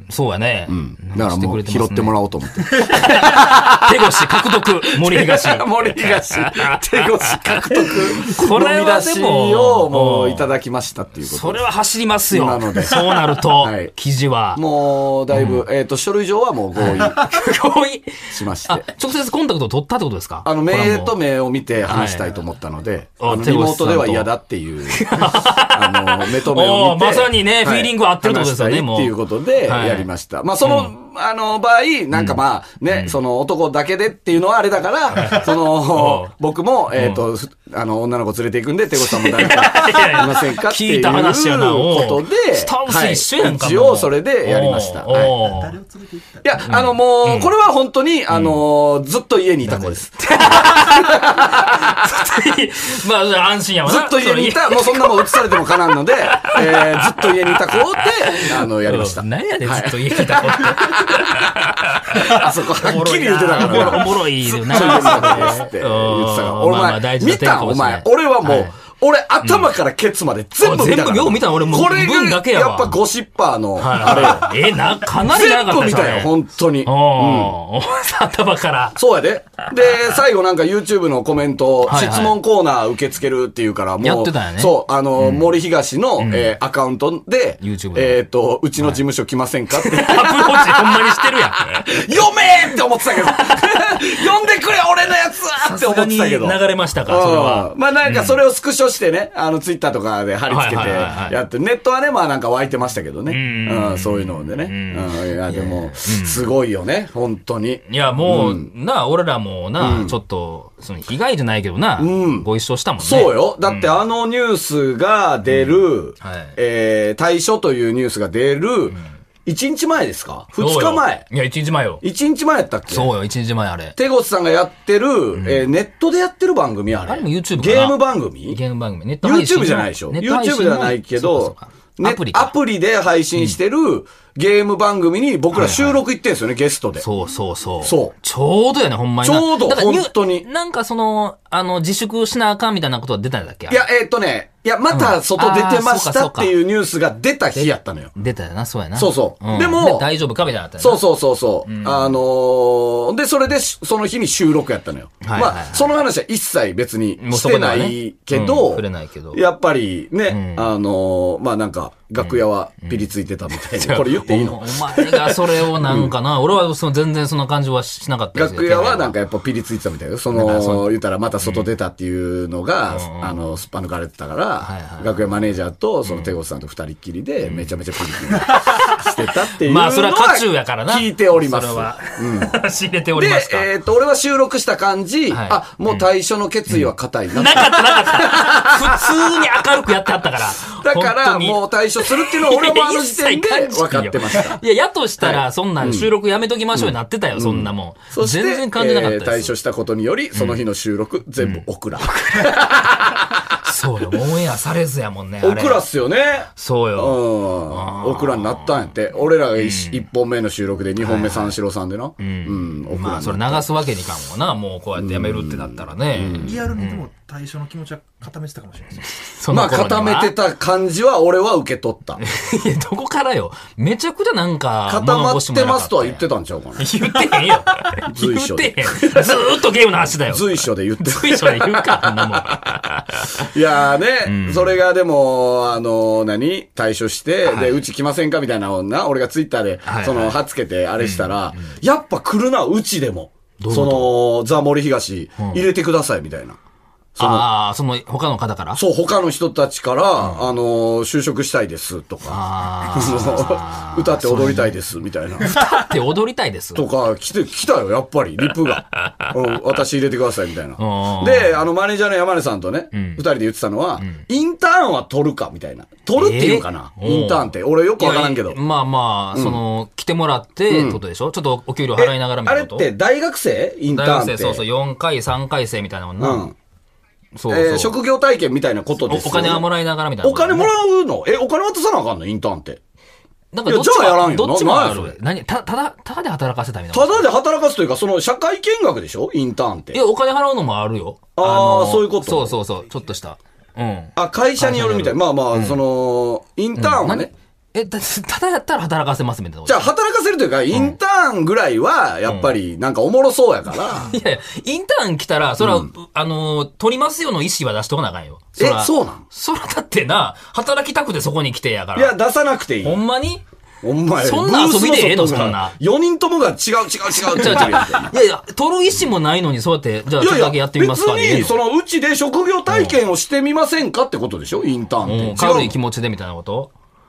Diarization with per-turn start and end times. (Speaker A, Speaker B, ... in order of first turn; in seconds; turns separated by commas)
Speaker A: 0.1-2.2, Speaker B: 0.7-4.2, Speaker A: 2.7-10.5, Speaker B: 4.8-11.6, Speaker A: 11.2-14.6, Speaker B: 12.3-13.9, Speaker B: 14.6-17.4, Speaker A: 15.3-15.7, Speaker A: 16.8-21.2, Speaker B: 18.3-18.9, Speaker B: 20.4-45.4, Speaker A: 21.8-22.4, Speaker A: 23.2-24.3, Speaker A: 24.9-30.1, Speaker A: 30.6-30.9, Speaker A: 32.1-32.4, Speaker A: 35.1-36.3, Speaker A: 36.9-37.2, Speaker A: 39.0-45.8, Speaker C: 45.2-46.5, Speaker B: 46.4-52.2, Speaker A: 46.6-47.5, Speaker A: 48.3-48.6, Speaker A: 49.6-55.6, Speaker B: 53.9-77.6, Speaker A: 56.3-68.8, Speaker A: 69.4-69.7, Speaker A: 70.6-73.0, Speaker A: 73.8-79.0, Speaker B: 79.0-108.7, Speaker A: 81.9-82.4, Speaker A: 84.0-85.5, Speaker A: 86.2-86.5, Speaker A: 87.6-88.2, Speaker A: 89.8-91.7, Speaker A: 93.4-93.7, Speaker A: 95.6-98.4, Speaker A: 100.5-101.4, Speaker A: 103.3-106.5, Speaker A: 107.9-114.0, Speaker B: 109.8-110.2, Speaker B: 112.0-112.5, Speaker B: 113.0-121.3, Speaker A: 116.2-116.6, Speaker A: 120.6-122.0, Speaker B: 122.0-123.1, Speaker A: 122.9-124.0, Speaker B: 124.0-128.6, Speaker A: 125.4-125.7, Speaker A: 127.0-132.6, Speaker B: 129.2-137.1, Speaker A: 135.5-136.0, Speaker A: 137.0-143.8, Speaker B: 137.8-138.1, Speaker B: 139.2-140.5, Speaker B: 143.7-148.1, Speaker A: 144.9-146.6, Speaker A: 147.6-151.0, Speaker B: 149.0-150.1, Speaker B: 150.8-166.1, Speaker A: 151.7-152.2, Speaker A: 155.2-155.9, Speaker A: 157.2-159.4, Speaker A: 160.3-160.7, Speaker A: 162.2-163.0, Speaker A: 163.8-169.2, Speaker B: 168.3-182.6, Speaker A: 170.3-171.7, Speaker A: 172.9-173.6, Speaker A: 174.6-175.1, Speaker A: 176.1-176.3, Speaker A: 177.4-177.7, Speaker A: 178.4-179.1, Speaker A: 179.6-183.7, Speaker B: 183.1-189.7, Speaker A: 185.3-186.1, Speaker A: 186.7-199.5, Speaker B: 190.8-194.6, Speaker B: 195.2-196.1, Speaker B: 196.7-203.7, Speaker A: 200.3-200.6, Speaker A: 203.6-205.8, Speaker B: 205.4-213.7, Speaker A: 206.5-208.8, Speaker A: 209.6-210.0, Speaker A: 211.0-211.6, Speaker A: 212.2-217.1, Speaker B: 215.0-216.6, Speaker C: 216.4-219.1, Speaker A: 219.2-220.3, Speaker B: 219.5-222.2, Speaker A: 222.2-226.3, Speaker B: 224.9-227.1, Speaker A: 226.8-233.4, Speaker B: 228.1-229.5, Speaker B: 230.3-232.6, Speaker B: 233.4-246.6, Speaker A: 234.2-234.8, Speaker A: 237.5-237.8, Speaker A: 239.8-240.4, Speaker A: 241.0-241.7, Speaker A: 243.6-244.2, Speaker B: 247.2-247.5, Speaker A: 247.2-248.8, Speaker B: 248.8-255.6, Speaker A: 252.3-254.7, Speaker A: 255.4-256.9, Speaker B: 256.8-268.6, Speaker A: 260.8-261.6, Speaker A: 262.9-263.2, Speaker A: 266.2-272.9, Speaker B: 269.3-269.6, Speaker B: 270.7-271.0, Speaker B: 272.0-274.6, Speaker A: 273.9-276.5, Speaker B: 276.2-276.6, Speaker A: 277.4-277.9, Speaker B: 277.5-279.6, Speaker A: 279.1-280.7, Speaker B: 280.2-282.8, Speaker A: 283.5-287.3, Speaker B: 283.7-285.2, Speaker B: 286.9-290.0, Speaker A: 289.9-295.8, Speaker B: 291.4-292.6, Speaker B: 294.2-297.3, Speaker A: 296.8-299.9, Speaker B: 299.7-304.1, Speaker A: 302.3-302.5, Speaker A: 303.8-312.1, Speaker B: 305.6-305.9, Speaker B: 308.6-309.2, Speaker B: 311.9-313.0, Speaker A: 312.8-313.4, Speaker B: 313.8-318.2, Speaker A: 314.2-315.8, Speaker A: 317.2-321.6, Speaker B: 320.2-325.8, Speaker A: 322.7-322.9, Speaker A: 325.0-326.7